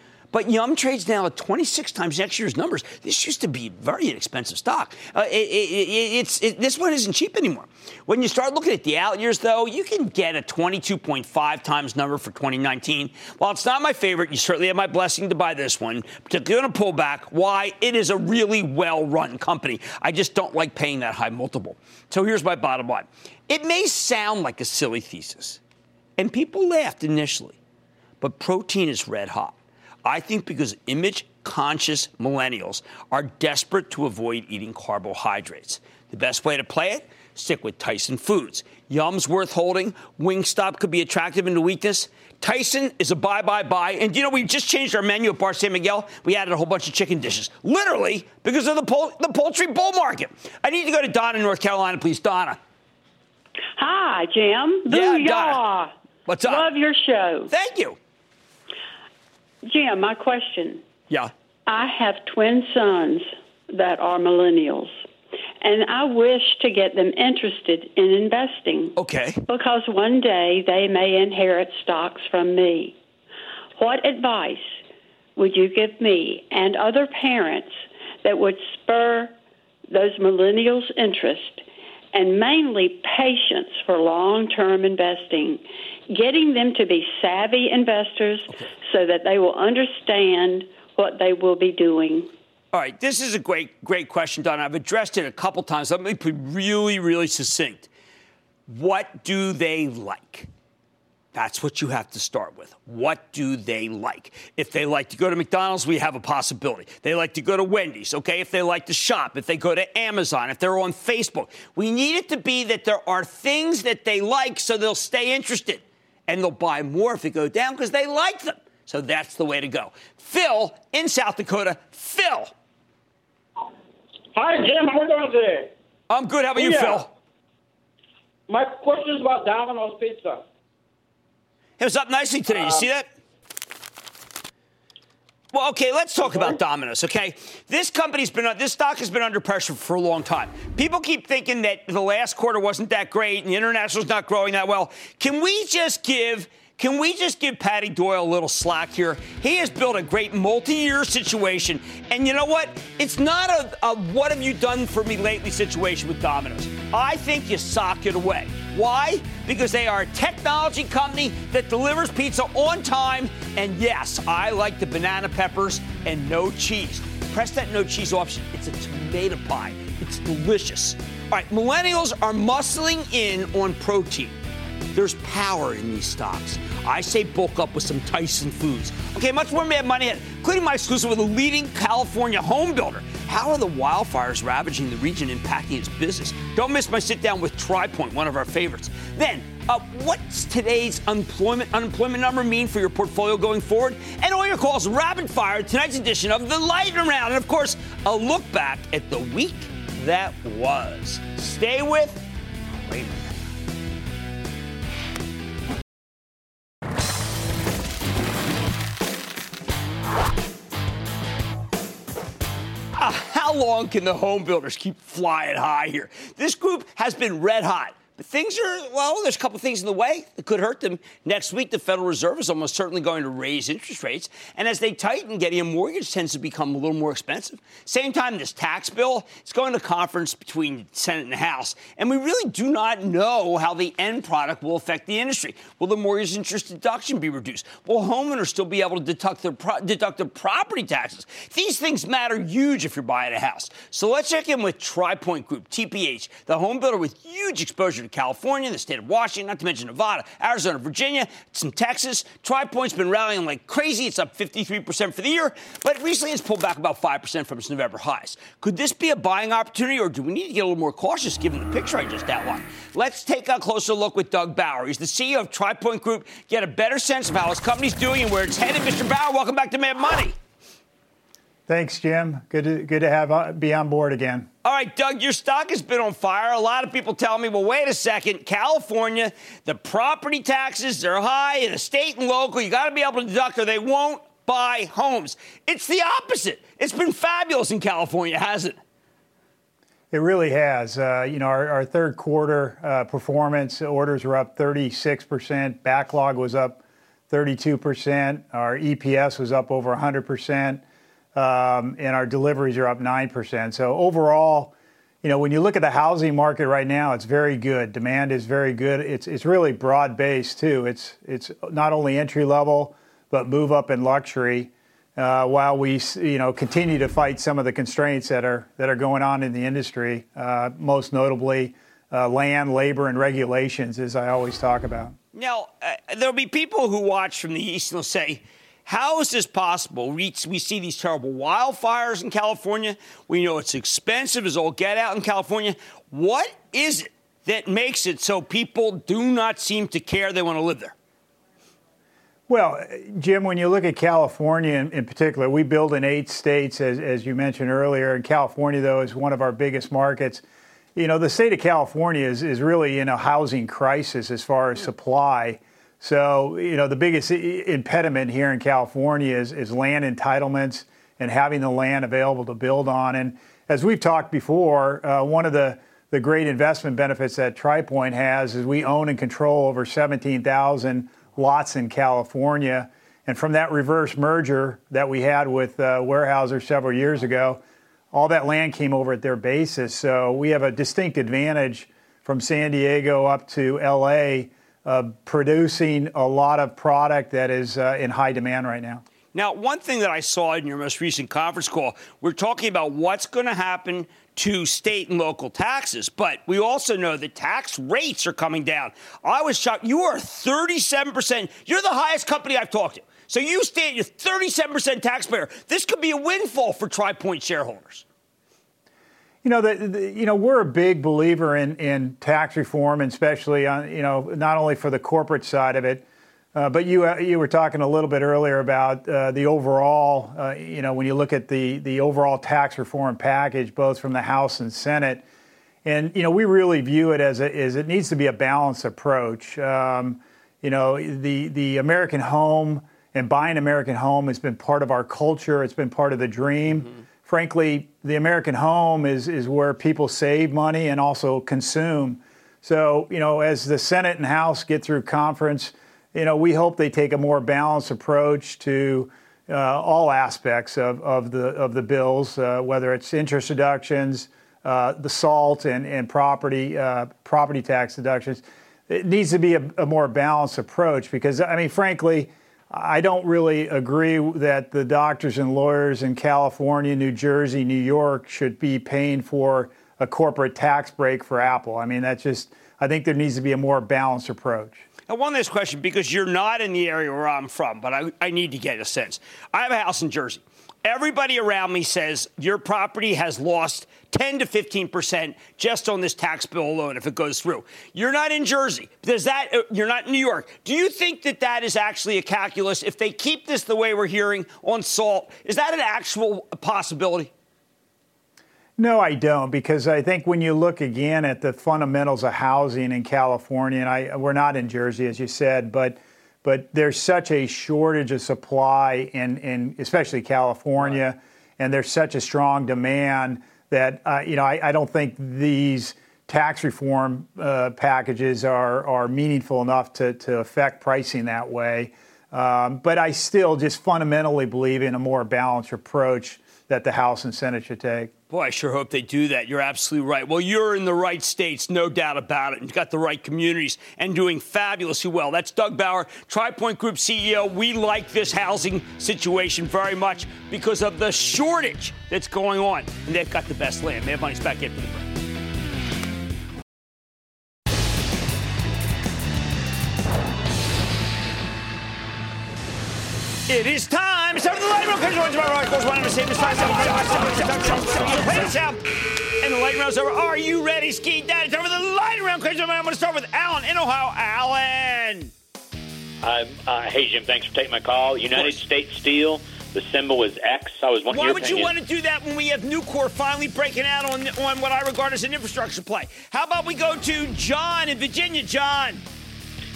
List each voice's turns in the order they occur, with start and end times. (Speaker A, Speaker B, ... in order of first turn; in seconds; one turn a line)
Speaker A: 0.3-25.6
Speaker A: 26.2-27.6
Speaker A: 28.2-52.6
Speaker B: 53.8-55.9
Speaker A: 54.9-55.6
Speaker A: 56.3-56.7
Speaker B: 56.4-57.5
Speaker A: 57.5-58.0
Speaker B: 59.6-60.8
Speaker B: 61.7-64.9
Speaker B: 65.6-69.0
Speaker A: 69.0-69.4
Speaker B: 69.5-73.0
Speaker B: 73.8-74.8
Speaker B: 75.3-79.3
Speaker B: 79.9-92.3
Speaker A: 92.7-97.9
Speaker A: 98.7-100.5
Speaker A: 101.3-122.5
Speaker C: 124.3-125.7
Speaker A: 126.1-127.1
Speaker C: 126.5-127.0
Speaker C: 128.5-130.4
Speaker A: 131.8-133.1
Speaker A: 135.5-174.4
Speaker A: 174.9-202.2
Speaker A: 202.8-203.4
Speaker A: 212.9-270.4
Speaker D: 271.7-274.5
Speaker A: 274.6-288.8
Speaker D: 290.1-300.8
Speaker D: 301.3-325.1
Speaker A: 325.3-340.9
Speaker D: 342.5-350.4
Speaker D: 350.9-377.6
Speaker D: 378.1-389.0
Speaker A: 389.3-408.0
Speaker D: 409.4-425.2
Speaker D: 425.8-474.8
Speaker A: 475.1-497.3
Speaker D: 498.8-528.1
Speaker A: 528.3-545.1
Speaker A: 553.5-558.9
Speaker A: 559.4-565.3
Speaker E: 566.2-571.7
Speaker A: 568.3-568.6
Speaker A: 571.1-579.0